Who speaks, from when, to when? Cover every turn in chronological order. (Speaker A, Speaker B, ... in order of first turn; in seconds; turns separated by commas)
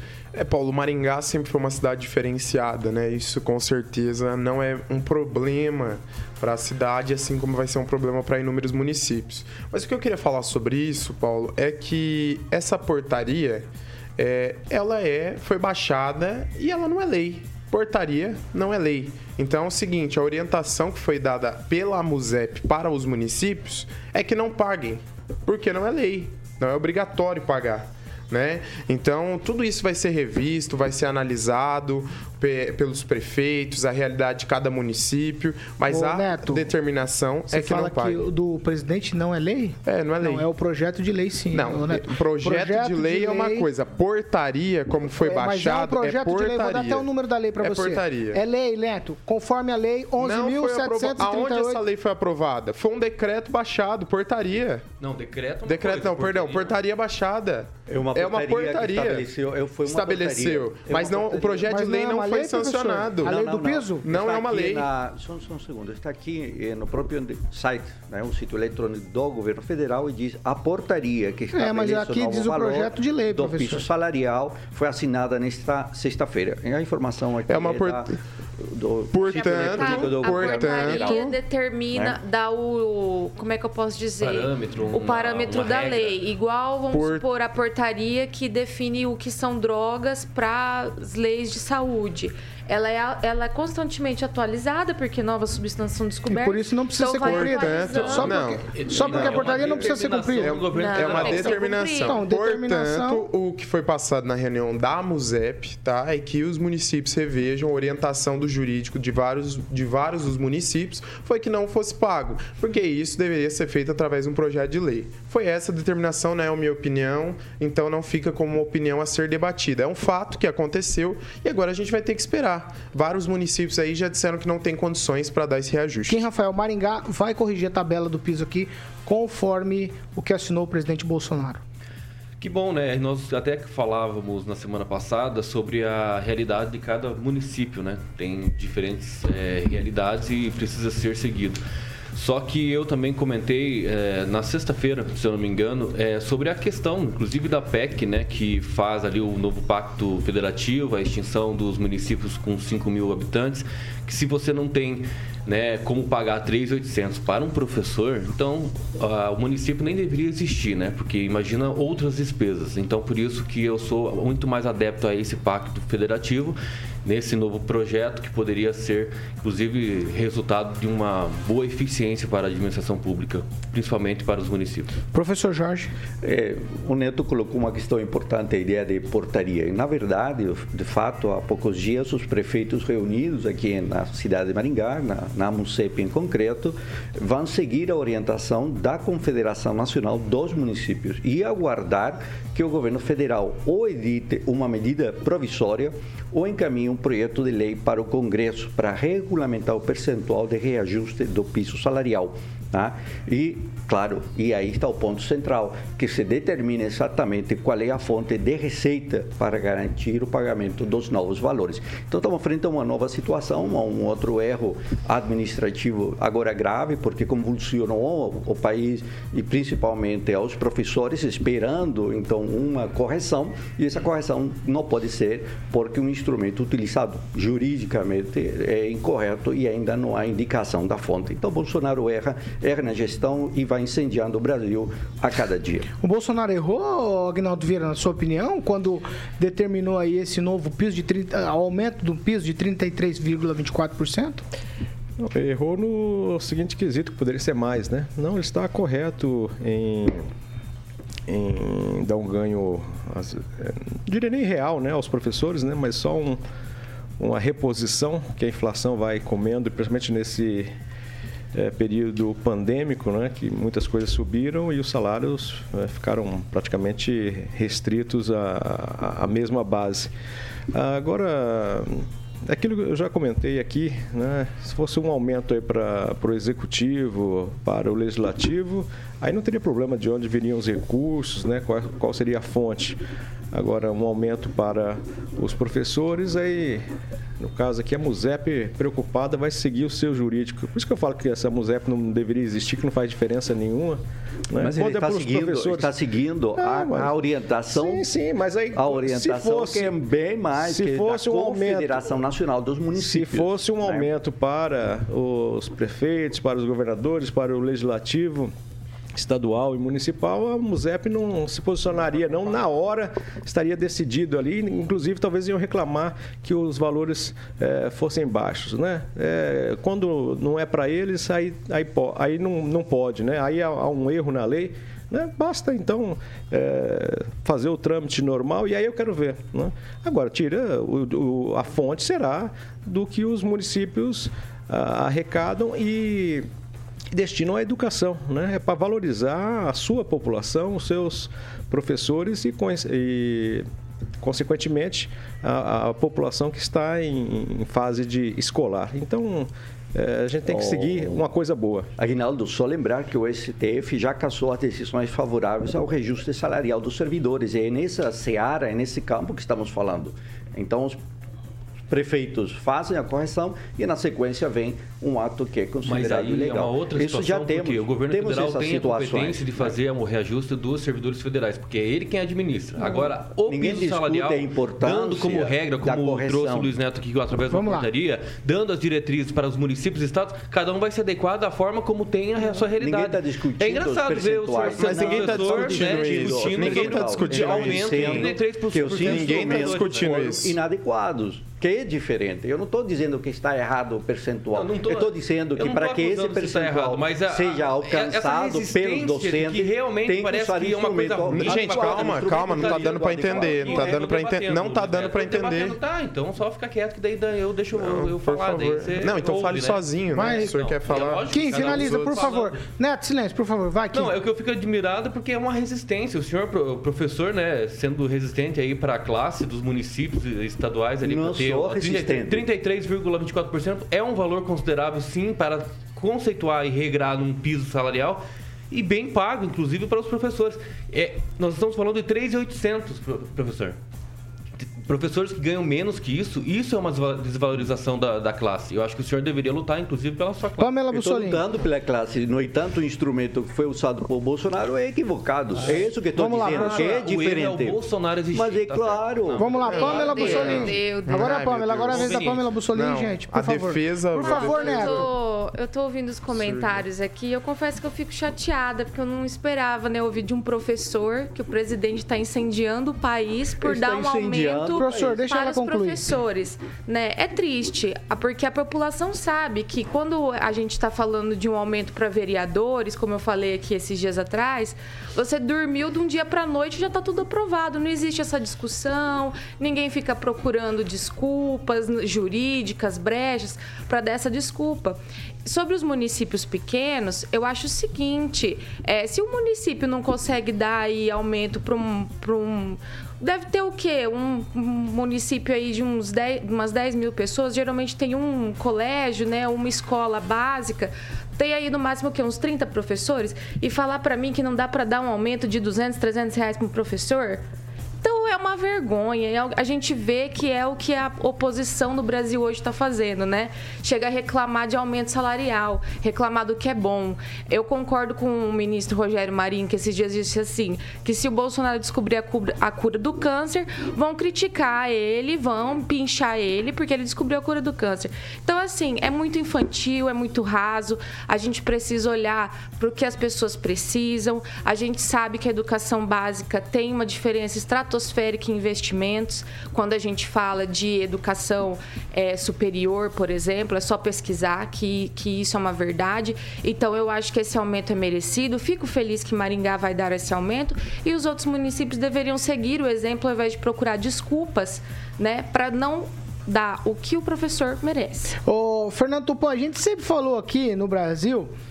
Speaker A: 0.3-38.2, Speaker B: 35.9-36.7, Speaker B: 37.5-43.7, Speaker A: 39.9-40.5, Speaker A: 41.5-48.4, Speaker B: 45.2-51.8, Speaker A: 50.2-54.8, Speaker C: 55.0-56.8, Speaker A: 55.6-59.3, Speaker D: 57.9-61.7, Speaker A: 59.9-63.4, Speaker B: 61.6-64.1, Speaker D: 63.2-78.1, Speaker A: 64.0-64.9, Speaker B: 71.5-73.9, Speaker A: 77.5-78.2, Speaker D: 78.6-81.2, Speaker A: 79.1-81.3, Speaker E: 79.3-98.5, Speaker C: 84.2-86.2, Speaker A: 86.9-87.2, Speaker B: 96.3-100.6, Speaker A: 97.2-126.3, Speaker C: 98.7-101.6, Speaker E: 100.7-102.2, Speaker B: 101.5-103.3, Speaker B: 126.1-131.6, Speaker C: 132.4-141.6, Speaker C: 142.2-174.9, Speaker B: 175.1-175.9, Speaker D: 176.2-235.9, Speaker B: 236.0-244.4, Speaker F: 245.2-250.3, Speaker F: 251.3-256.4, Speaker F: 257.2-260.7, Speaker F: 261.5-270.1, Speaker F: 270.7-283.0, Speaker F: 283.5-286.9, Speaker F: 287.4-295.9, Speaker D: 294.6-298.1, Speaker F: 296.6-297.1, Speaker F: 297.7-300.0, Speaker D: 298.8-304.1, Speaker F: 300.6-302.1, Speaker F: 302.9-308.5, Speaker F: 309.1-336.5, Speaker F: 337.1-343.7, Speaker F: 344.2-351.9, Speaker D: 350.5-351.3, Speaker D: 352.0-361.0, Speaker D: 361.9-369.8, Speaker C: 365.9-390.1, Speaker D: 373.4-376.7, Speaker B: 377.5-377.9, Speaker D: 382.8-404.0, Speaker A: 384.7-388.3, Speaker A: 389.0-390.6, Speaker C: 394.5-412.6, Speaker A: 401.3-405.8, Speaker A: 407.7-412.5, Speaker B: 410.1-410.5, Speaker B: 411.3-414.1, Speaker C: 413.9-433.8, Speaker D: 421.0-422.5, Speaker C: 434.6-440.8, Speaker B: 440.6-441.4, Speaker D: 440.9-447.8, Speaker C: 445.6-450.7, Speaker B: 445.7-447.0, Speaker D: 448.3-449.7, Speaker B: 449.4-455.1, Speaker A: 449.7-455.1, Speaker E: 449.7-451.3, Speaker C: 451.9-452.5, Speaker E: 454.2-507.4, Speaker A: 456.3-456.8, Speaker D: 463.6-465.2, Speaker B: 464.8-466.1, Speaker E: 508.0-558.4, Speaker B: 558.5-561.5